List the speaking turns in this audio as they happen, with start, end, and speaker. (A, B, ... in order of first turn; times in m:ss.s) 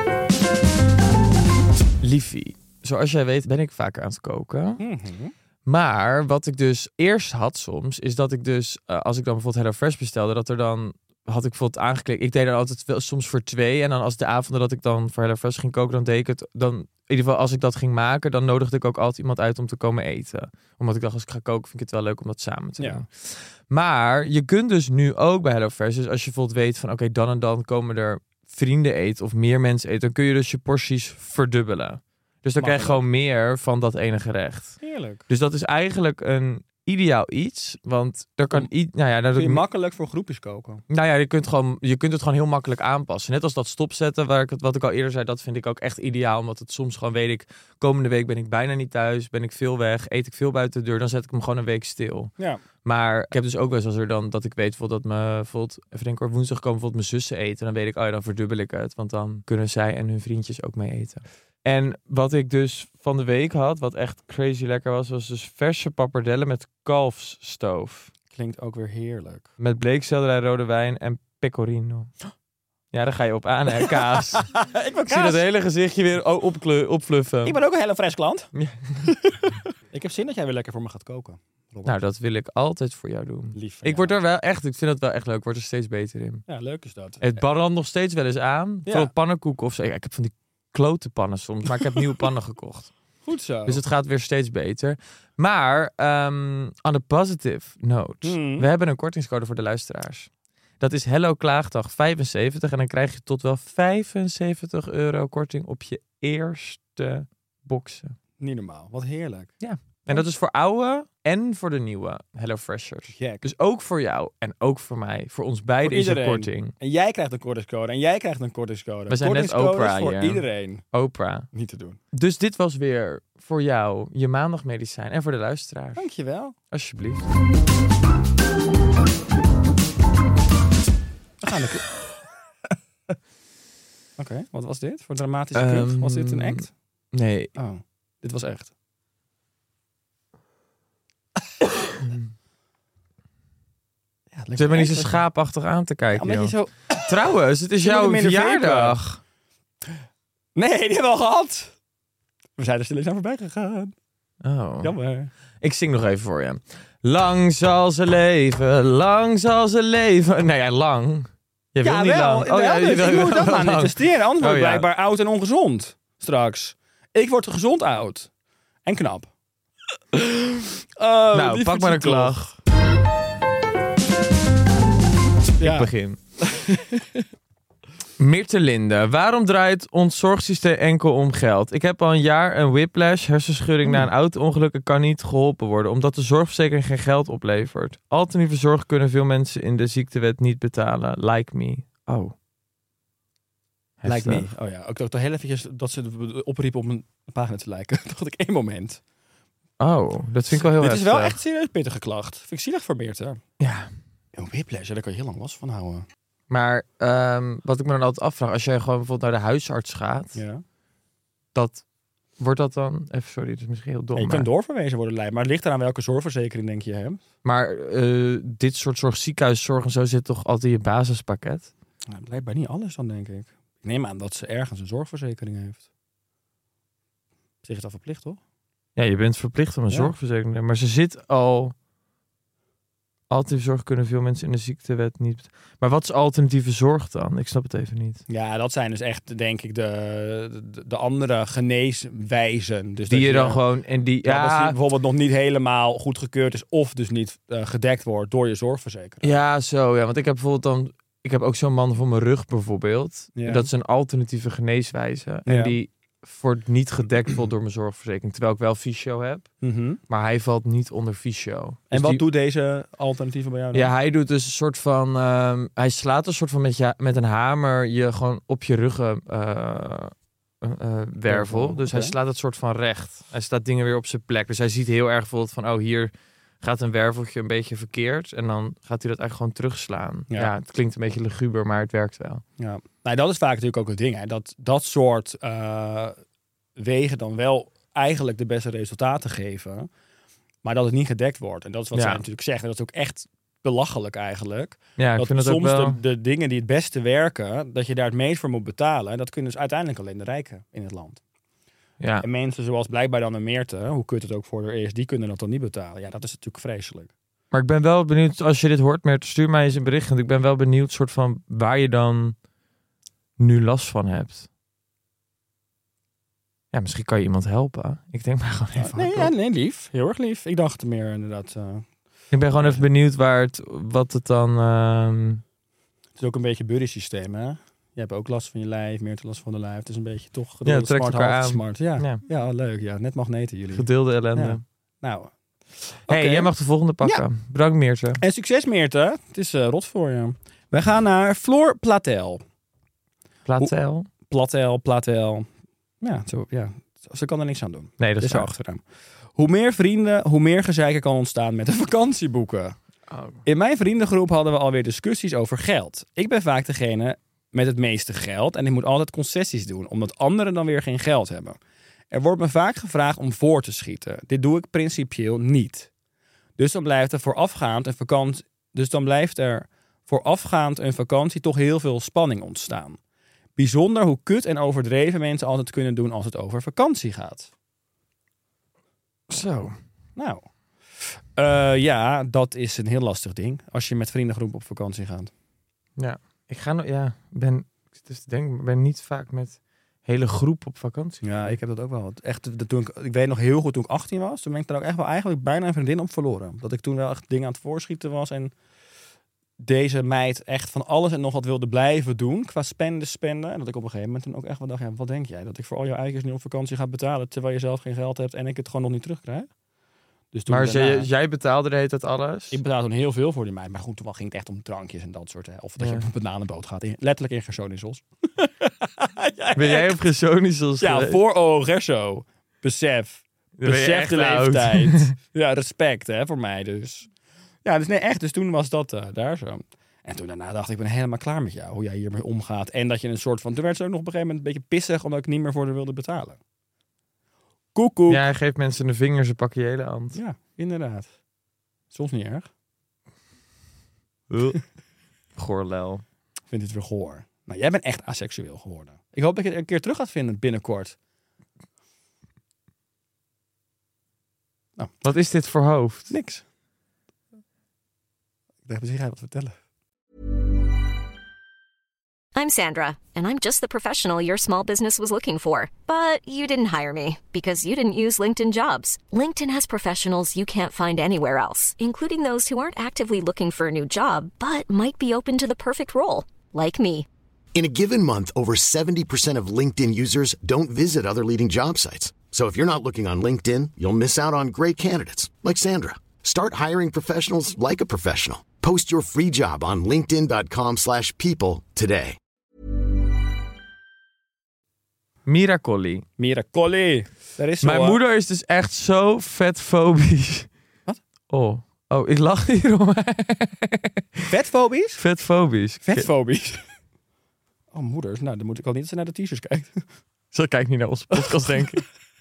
0:02.0-0:04.8 A
0:04.8-0:05.3 B
0:05.6-0:39.6 A
0:22.8-0:23.0 B
0:32.6-0:33.0 B
0:34.8-0:35.2 B
0:39.4-0:40.8 B
0:40.9-1:08.1 A
1:08.3-1:09.5 B
1:09.6-1:12.1 A
1:12.9-1:14.6 A
1:13.8-1:15.4 B
1:15.1-1:17.6 A
1:17.4-1:18.5 B
1:18.5-1:19.1 A
1:19.1-1:22.0 B
1:21.8-1:26.4 A
1:23.5-1:24.2 B
1:26.5-1:27.4 B
1:27.2-1:32.9 A
1:28.8-1:29.1 B
1:33.2-1:33.8 B
1:33.6-1:40.3 A
1:38.2-1:38.7 B
1:40.8-1:48.2 A
1:48.4-1:49.5 B
1:49.6-1:56.7 A
1:53.1-1:53.4 B
1:55.8-2:00.8 B
1:59.1-2:01.5 A
2:01.5-2:02.0 B
2:02.1-2:06.1 A
2:06.0-2:06.6 B
2:06.7-2:07.3 A
2:11.4-2:11.9 B
2:14.2-2:16.7 B
2:15.5-2:17.5 A
2:17.6-2:18.7 B
2:22.0-2:22.3 A
2:24.3-2:25.2 B
2:24.6-2:29.2 A
2:26.1-2:27.1 B
2:27.8-2:29.0 B
2:30.6-2:31.7 B
2:32.6-2:33.9 B
2:34.4-2:34.9 A
2:34.8-2:35.3 B
2:35.6-2:44.8 A
2:41.8-2:48.3 B
2:48.8-2:49.3 B
2:50.1-2:52.4 B
2:51.3-2:52.5 A
2:55.6-2:56.2 A
2:55.6-2:55.9 B
2:56.4-2:57.2 B
2:58.2-3:12.3 A
3:14.0-3:14.5 A
3:14.0-3:19.0 B
3:19.8-3:21.4 A
3:20.5-3:23.4 B
3:23.6-3:23.9 A
3:24.3-3:26.0 B
3:26.5-3:30.4 A
3:30.3-3:30.6 B
3:31.5-3:31.8 A
3:32.4-3:34.5 A
3:34.1-3:37.2 B
3:37.4-3:41.7 A
3:42.1-3:45.8 B
3:47.6-3:48.4 B
3:49.0-3:51.7 A
3:53.3-3:58.2 A
3:58.3-4:03.6 B
4:03.1-4:04.8 A
4:04.2-4:09.3 B
4:09.2-4:19.5 A
4:13.4-4:13.7 B
4:15.5-4:15.8 B
4:19.6-4:20.0 B
4:20.1-4:22.2 A
4:21.9-4:23.9 B
4:23.7-4:36.1 A
4:31.3-4:32.1 B
4:36.6-4:42.4 A
4:42.6-4:46.2 B
4:46.8-4:49.9 B
4:50.6-5:01.2 B
4:51.9-4:52.2 A
4:55.0-4:56.0 A
5:02.0-5:02.2 A
5:02.2-5:07.1 B
5:07.5-5:12.4 A
5:13.4-5:14.5 A
5:16.7-5:19.3 A
5:18.8-5:21.9 B
5:22.3-5:25.4 A
5:22.6-5:22.8 B
5:26.2-5:35.3 B
5:30.6-5:32.2 A
5:33.7-5:34.6 A
5:36.1-5:36.5 B
5:36.1-5:38.2 A
5:38.2-5:42.4 B
5:43.4-5:44.1 A
5:44.3-5:45.5 B
5:46.0-5:48.8 B
5:48.0-5:48.5 A
5:49.4-5:52.8 B
5:53.1-5:53.4 A
5:53.4-6:01.6 B
6:02.1-6:05.9 B
6:06.6-6:13.0 B
6:13.6-6:17.5 B
6:19.3-6:19.8 A
6:20.2-6:20.5 B
6:21.0-6:25.3 B
6:26.0-6:31.5 A
6:31.2-6:38.5 B
6:39.6-6:49.5 B
6:50.3-6:51.1 B
6:50.5-6:52.6 A
6:52.5-7:00.0 B
6:55.8-6:56.1 A
6:59.6-7:01.2 A
7:00.8-7:07.1 B
7:03.6-7:05.1 A
7:07.6-7:16.4 B
7:17.7-7:18.2 B
7:18.1-7:20.2 A
7:20.1-7:21.1 B
7:21.9-7:22.5 B
7:24.3-7:24.6 A
7:25.4-7:26.0 A
7:26.5-7:31.0 B
7:35.0-7:36.1 A
7:36.1-7:36.4 B
7:38.6-7:39.5 B
7:42.3-7:57.1 C
7:57.5-8:12.2 D
8:15.2-8:16.0 A
8:16.2-8:18.0 B
8:17.6-8:20.5 A
8:21.3-8:24.2 A
8:24.3-8:25.0 B
8:25.0-8:26.1 A
8:25.8-8:26.6 B
8:27.7-8:29.8 B
8:30.3-8:31.8 A